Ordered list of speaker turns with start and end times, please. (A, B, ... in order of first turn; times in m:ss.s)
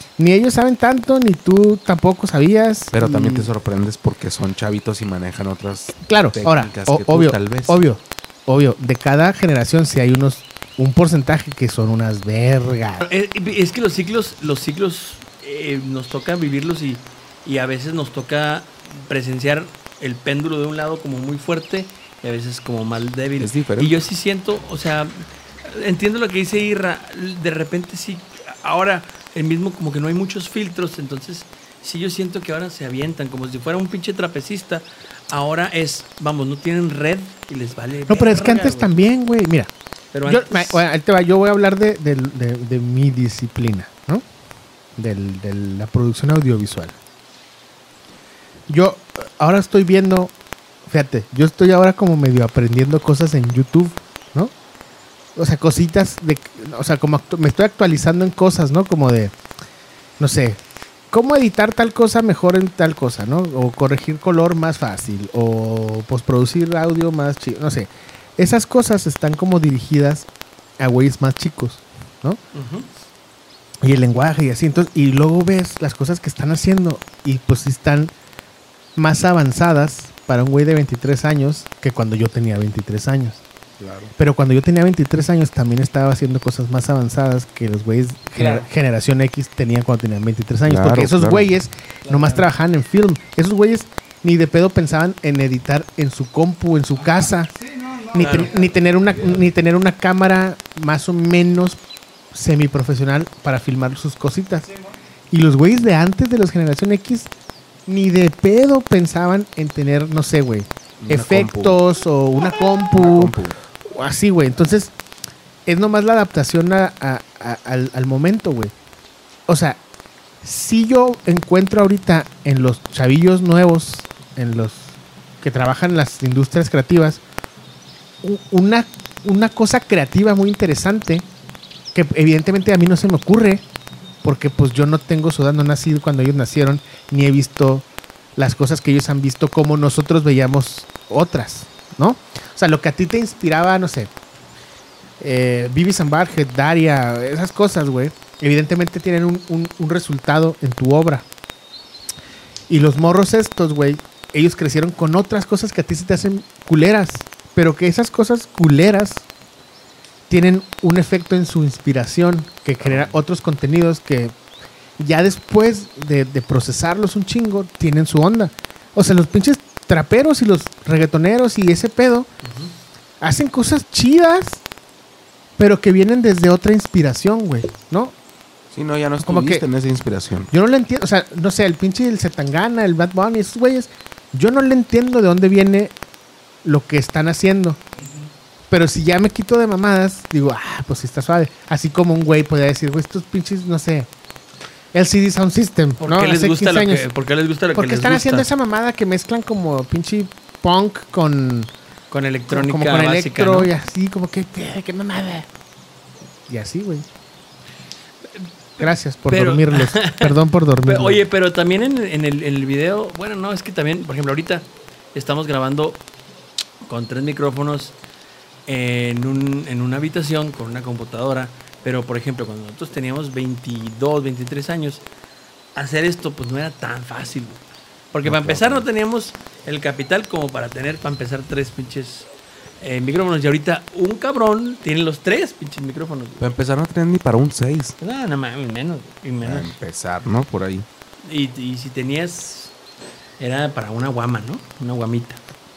0:00.2-0:03.5 A
0:02.9-0:07.8 B
0:06.0-0:13.0 A
0:13.0-0:38.9 C
0:23.4-0:24.0 B
0:38.1-0:39.7 A
0:40.1-0:40.8 C
0:40.2-0:44.2 A
0:45.0-0:46.9 A
0:48.7-0:50.3 A
0:50.9-0:54.5 A
0:55.4-0:59.3 A
1:00.2-1:00.6 A
1:01.1-1:10.3 A
1:10.8-1:12.4 A
1:12.5-1:12.9 C
1:13.8-1:18.1 A
1:19.0-1:23.4 A
1:23.8-1:24.1 B
1:24.2-1:37.5 A
1:30.6-1:31.5 B
1:32.0-1:32.4 C
1:38.1-1:41.8 A
1:38.1-1:38.6 C
1:42.3-1:44.7 A
1:45.3-1:47.3 A
1:47.9-1:53.3 A
1:51.0-1:51.8 B
1:52.9-1:53.6 B
1:53.9-1:54.9 A
1:55.6-1:58.7 A
1:59.5-1:59.8 A
2:00.4-2:07.2 A
2:08.2-2:11.3 A
2:11.9-2:13.6 A
2:14.2-2:17.8 A
2:18.4-2:24.1 A
2:25.2-2:31.2 A
2:32.7-2:39.2 A
2:40.3-2:44.3 A
2:45.0-2:52.3 A
2:52.4-2:52.7 C
2:53.2-2:54.6 A
2:55.6-2:58.1 A
2:58.7-3:00.5 B
2:59.2-2:59.6 A
3:00.5-3:05.9 A
3:06.6-3:07.8 A
3:08.7-3:14.1 A
3:14.9-3:17.1 A
3:16.0-3:18.5 C
3:17.7-3:21.7 A
3:22.1-3:23.7 C
3:22.5-3:25.5 A
3:26.5-3:27.1 A
3:28.3-3:36.0 C
3:28.8-3:31.2 A
3:36.8-3:38.0 C
3:38.7-3:45.0 C
3:45.7-3:47.6 C
3:48.1-3:52.3 C
3:48.2-3:48.9 B
3:52.8-3:56.4 C
3:56.4-3:58.0 B
3:58.0-3:59.7 C
3:59.4-4:00.9 B
4:01.2-4:02.7 C
4:03.4-4:05.4 C